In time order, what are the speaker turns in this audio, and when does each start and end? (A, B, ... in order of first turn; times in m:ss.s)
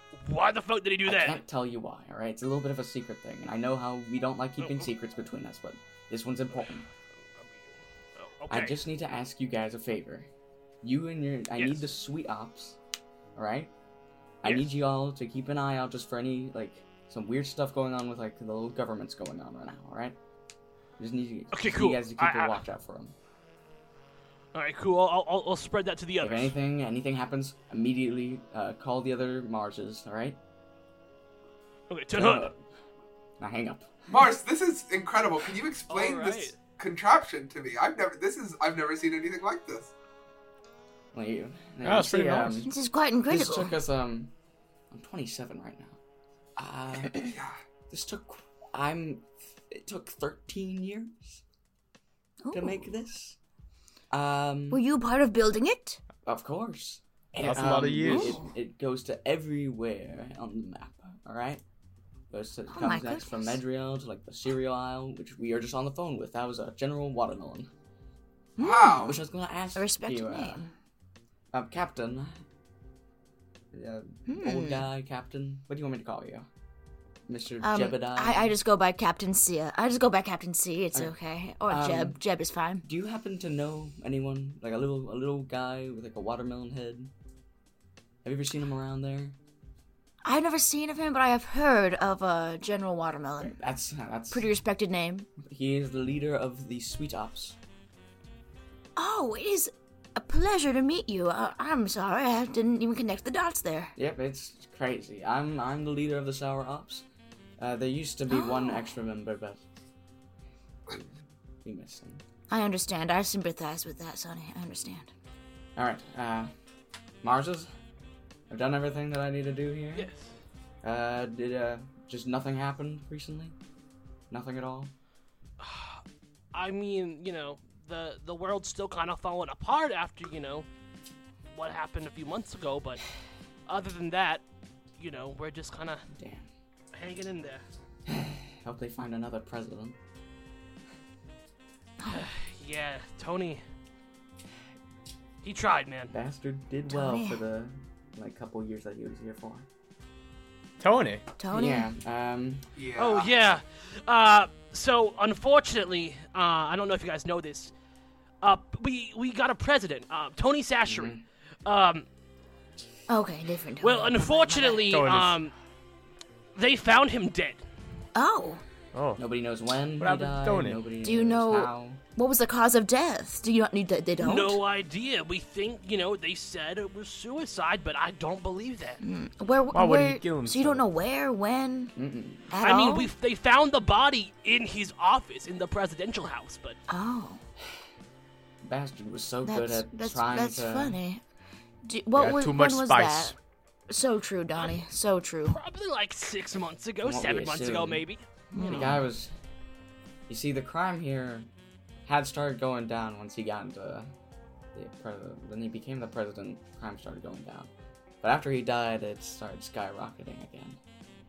0:00.2-0:01.4 A
0:01.0-0:06.9 B
0:04.6-0:04.9 A
0:07.4-0:08.8 A
0:08.5-0:10.3 B
0:10.8-0:12.8 B
0:11.6-0:11.8 A
0:13.4-0:13.7 B
0:14.4-0:20.2 B
0:14.4-0:14.7 A
0:21.0-0:23.2 B
0:21.5-0:22.6 A
0:24.5-0:26.6 A
0:26.2-0:30.4 B
0:31.9-0:32.5 A
0:32.1-0:32.6 B
0:33.4-0:34.2 B
0:34.1-0:39.9 C
0:35.9-0:36.6 A
0:41.1-0:44.3 B
0:41.8-0:42.7 D
0:42.7-0:43.8 E
0:44.9-0:46.0 B
0:46.6-0:47.3 B
0:47.2-0:47.6 C
0:47.9-0:51.4 B
0:52.4-0:52.9 E
0:52.5-0:53.4 B
0:54.1-0:54.9 B
0:54.7-0:56.0 E
0:56.2-1:01.6 B
0:57.4-0:58.4 D
0:58.0-0:58.5 E
1:02.3-1:07.7 B
1:02.7-1:03.6 E
1:08.6-1:09.1 E
1:08.6-1:09.2 C
1:08.8-1:10.7 B
1:09.8-1:10.7 E
1:11.5-1:12.4 B
1:13.7-1:16.5 B
1:14.3-1:14.9 E
1:17.3-1:18.6 B
1:17.6-1:22.9 E
1:20.9-1:22.2 B
1:22.8-1:27.1 B
1:28.2-1:29.4 B
1:30.2-1:33.6 E
1:33.4-1:34.5 B
1:34.3-1:35.3 E
1:35.4-1:37.6 B
1:39.0-1:43.9 E
1:44.0-1:47.0 B
1:47.6-1:49.6 B
1:48.3-1:48.9 E
1:51.6-1:52.2 B
1:52.5-1:55.1 E
1:55.8-1:56.5 B
1:57.2-1:57.7 B
1:58.5-2:00.1 B
2:00.0-2:00.3 A
2:00.8-2:03.6 B
2:04.3-2:04.9 B
2:05.6-2:06.0 A
2:06.5-2:10.7 A
2:11.5-2:13.0 A
2:13.7-2:14.4 A
2:15.0-2:16.1 A
2:16.1-2:16.5 B
2:16.9-2:17.6 A
2:18.1-2:20.0 B
2:22.0-2:22.3 E
2:22.1-2:23.6 A
2:25.4-2:26.1 A
2:26.1-2:29.7 B
2:26.9-2:27.4 E
2:30.8-2:31.2 D
2:31.4-2:31.9 E
2:31.5-2:32.6 B
2:32.8-2:33.4 C
2:33.0-2:37.7 A
2:38.4-2:42.1 A
2:40.9-2:41.2 B
2:43.1-2:45.0 E
2:43.8-2:45.5 A
2:44.8-2:45.4 D
2:46.6-2:47.6 A
2:48.2-2:48.6 E
2:48.9-2:49.2 D
2:49.2-2:52.0 B
2:50.0-2:50.8 D
2:51.0-2:54.6 E
2:54.2-2:59.0 A
2:59.0-3:01.9 E
2:59.7-3:00.9 D
3:02.0-3:02.5 B
3:02.5-3:03.1 E
3:02.6-3:06.8 A
3:06.9-3:07.4 E
3:08.6-3:11.0 B
3:09.4-3:11.2 E
3:11.8-3:13.4 E
3:12.2-3:13.4 D
3:13.9-3:15.6 E
3:14.6-3:14.8 A
3:15.4-3:18.9 A
3:17.0-3:18.0 B
3:18.5-3:19.1 E
3:18.6-3:19.3 B
3:20.3-3:21.5 B
3:22.1-3:24.1 B
3:24.8-3:30.8 B